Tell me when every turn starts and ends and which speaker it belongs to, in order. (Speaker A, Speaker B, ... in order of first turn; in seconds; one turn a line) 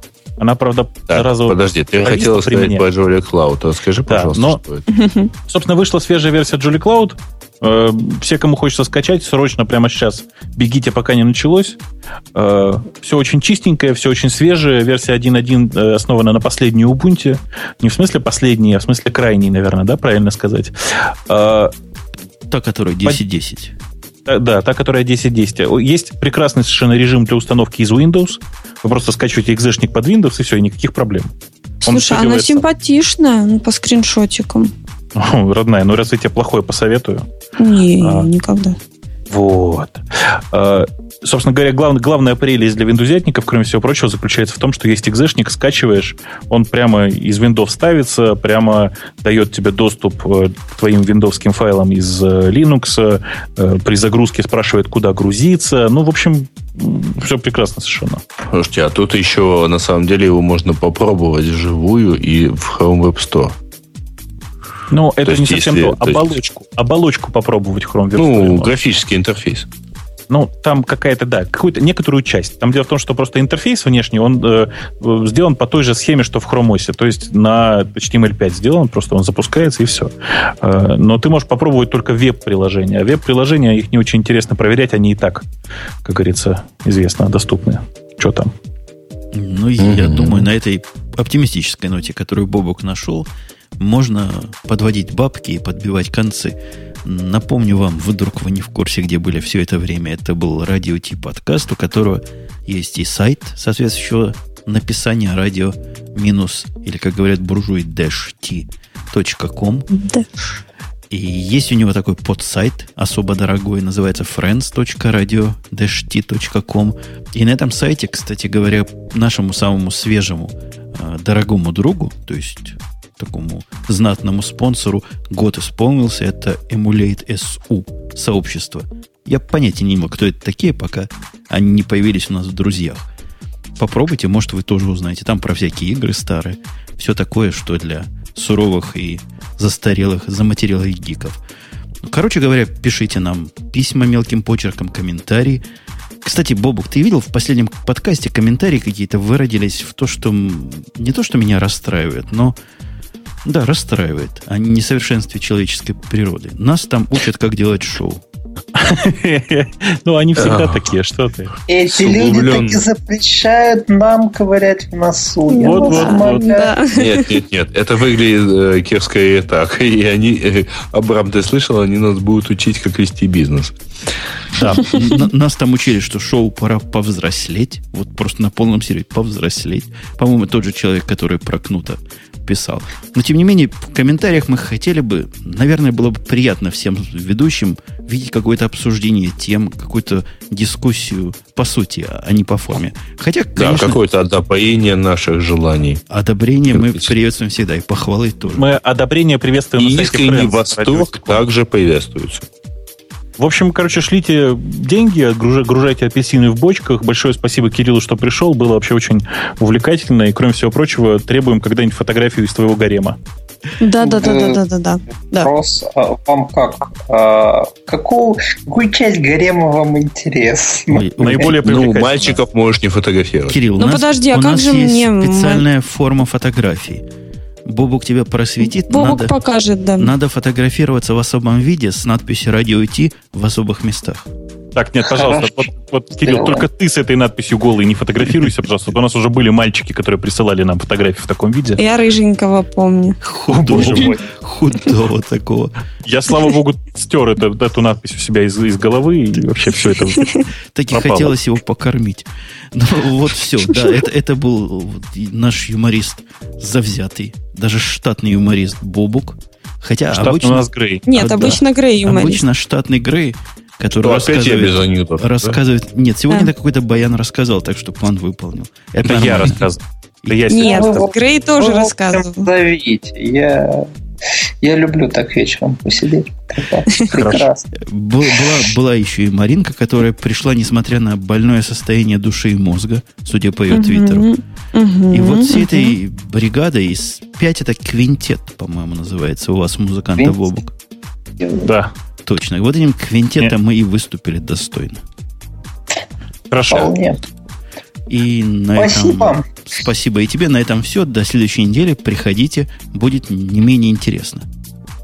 Speaker A: 0.4-2.9
Speaker B: 1.1-4.8
Speaker A: 4.1-4.6
Speaker C: 4.9-5.3
Speaker A: 5.5-11.8
Speaker A: 12.3-21.7
Speaker D: 22.5-23.7
Speaker A: 24.2-31.3
Speaker A: 31.8-32.6
Speaker C: 31.8-34.7
Speaker A: 35.1-37.2
Speaker C: 37.6-38.8
Speaker A: 38.0-38.3
Speaker A: 39.3-58.2
Speaker B: 58.5-63.5
Speaker A: 64.9-68.7
Speaker B: 65.2-66.4
Speaker B: 68.2-69.7
Speaker A: 70.3-85.5
Speaker A: 86.0-88.5
Speaker D: 89.3-109.9
Speaker B: 89.8-90.5
Speaker C: 109.9-110.2
Speaker D: 111.1-133.1
Speaker D: 133.8-141.4
Speaker D: 142.0-145.6
Speaker D: 146.2-152.6
Speaker D: 153.4-158.2
Speaker A: 158.8-161.6
Speaker B: 160.3-160.9
Speaker E: 161.7-166.8
Speaker B: 161.9-162.8
Speaker C: 165.5-167.2
Speaker A: 165.6-166.4
Speaker B: 166.9-173.7
Speaker A: 174.6-174.8
Speaker D: 174.8-194.0
Speaker B: 193.6-196.0
Speaker D: 196.1-198.7
Speaker B: 196.7-197.1
Speaker A: 198.6-201.4
Speaker B: 199.8-202.5
Speaker A: 203.4-213.2
Speaker C: 213.8-215.5
Speaker E: 214.0-214.6
Speaker E: 215.2-221.5
Speaker D: 220.9-221.6
Speaker A: 221.2-222.4
Speaker B: 221.6-223.6
Speaker D: 223.5-227.0
Speaker C: 223.8-225.6
Speaker D: 227.7-229.3
Speaker C: 228.9-230.1
Speaker D: 230.0-234.3
Speaker A: 234.7-241.8
Speaker E: 235.0-235.5
Speaker E: 236.2-236.7
Speaker C: 241.8-243.2
Speaker D: 243.2-245.7
Speaker A: 243.5-244.2
Speaker E: 243.7-244.2
Speaker A: 246.0-250.4
Speaker D: 249.6-250.2
Speaker C: 250.2-250.4
Speaker D: 250.7-269.6
Speaker A: 250.9-251.3
Speaker A: 260.1-261.1
Speaker C: 261.1-262.4
Speaker B: 264.0-265.6
Speaker A: 269.0-271.1
Speaker D: 270.2-270.6
Speaker C: 270.5-272.4
Speaker E: 270.6-273.9
Speaker E: 274.6-277.7
Speaker A: 277.1-277.5
Speaker D: 277.7-284.3
Speaker C: 283.7-285.9
Speaker D: 285.1-290.7
Speaker E: 291.4-291.6
Speaker A: 291.6-291.9
Speaker D: 292.2-295.0
Speaker A: 296.5-296.9
Speaker E: 296.7-297.2
Speaker D: 298.1-304.5
Speaker E: 298.8-299.4